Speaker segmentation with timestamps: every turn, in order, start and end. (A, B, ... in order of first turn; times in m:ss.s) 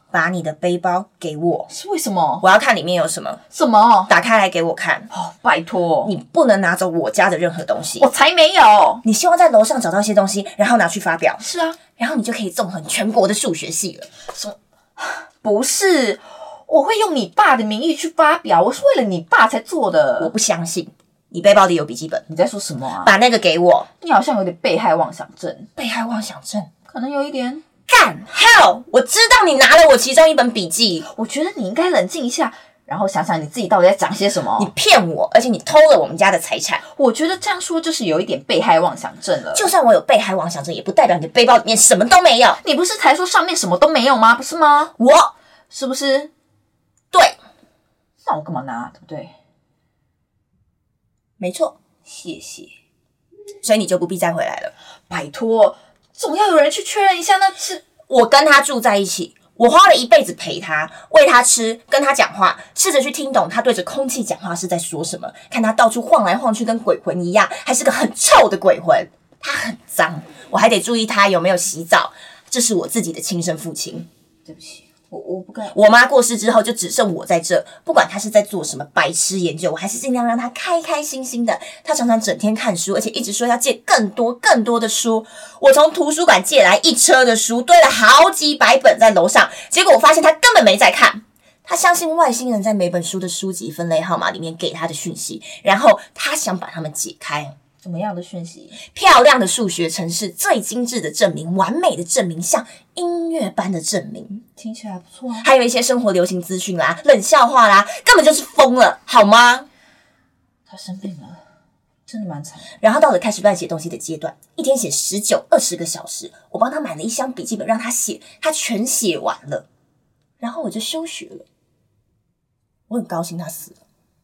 0:00.1-0:01.7 A
0:01.7-0:02.4 B
0:02.4-0:03.4 A
0:03.5-0:04.1 B
0:04.1-0:05.1 A
0:05.1-0:06.1 B
0:06.0-0:08.1 A
0:08.0-0:09.0 B
0:09.0-0:11.4 A
0:11.4-0:11.8 B
0:12.0-0:14.1 A
0:14.2-0:20.3 B
0:20.2-0:22.2 A
0:22.3-0:23.2 B
0:23.0-0:23.9 A
0:24.0-0:25.7 B
0:25.8-0:26.7 A
0:26.8-0:27.7 B
0:27.9-0:31.1 A
0:31.1-0:34.7 B
0:34.6-0:36.8 A
0:36.8-0:39.7 B
0:39.5-0:42.6 A
0:42.6-0:44.9 B
0:45.0-0:45.3 A
0:45.7-0:46.3 B
0:47.1-0:47.4 A
0:48.2-0:49.3 B
0:51.4-0:51.8 A
0:52.0-0:52.8 B
0:53.6-0:54.7 A
0:55.1-0:57.8 B
0:58.1-1:14.1 A
1:14.4-1:15.8 B
1:15.7-1:37.5 A
1:37.8-1:38.8 B
1:38.8-1:44.4 A
1:44.6-1:45.5 B
1:45.4-1:49.7 A
1:50.7-1:51.4 B
1:52.1-1:52.7 B
1:52.8-1:59.6 A
2:00.4-2:01.4 A
2:02.9-2:03.8 A